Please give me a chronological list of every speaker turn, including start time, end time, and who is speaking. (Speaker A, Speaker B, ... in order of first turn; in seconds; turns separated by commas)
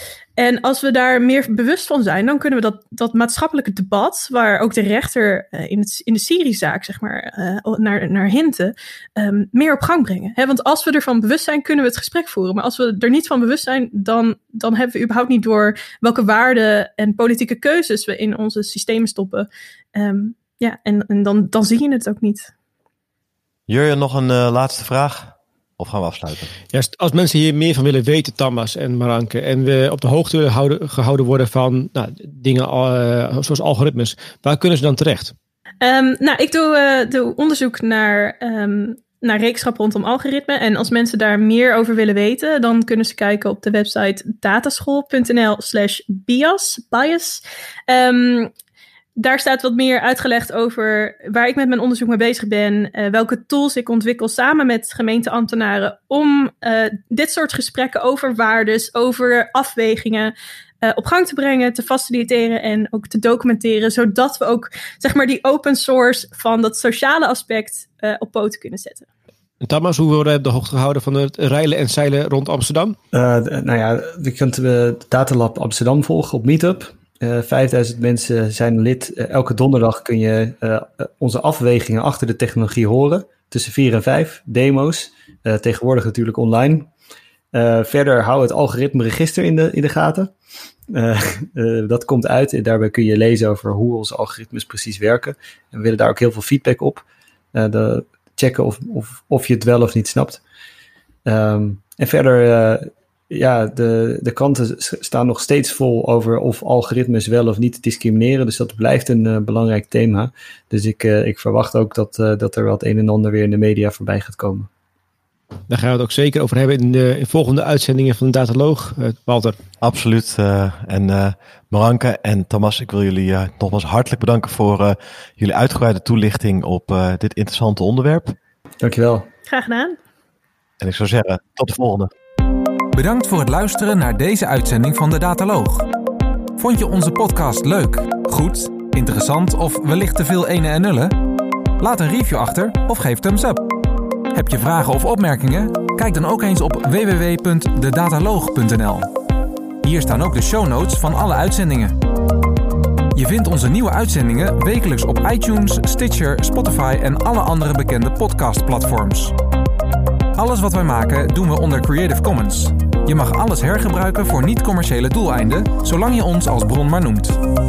Speaker A: 0.4-22.5, Speaker B: 23.7-26.5, Speaker C: 26.7-35.3, Speaker A: 35.8-48.5, Speaker A: 49.2-69.1, Speaker C: 69.6-73.0, Speaker D: 73.1-86.9, Speaker D: 87.5-90.3, Speaker D: 90.9-100.4, Speaker D: 101.2-114.7, Speaker C: 115.7-119.6, Speaker B: 119.8-128.3, Speaker D: 128.8-129.3, Speaker A: 129.4-130.0, Speaker B: 130.8-132.1, Speaker E: 132.9-135.9, Speaker E: 136.6-141.1, Speaker E: 141.8-143.7, Speaker E: 144.3-149.1, Speaker E: 149.8-152.0, Speaker E: 153.1-159.4, Speaker E: 160.3-167.4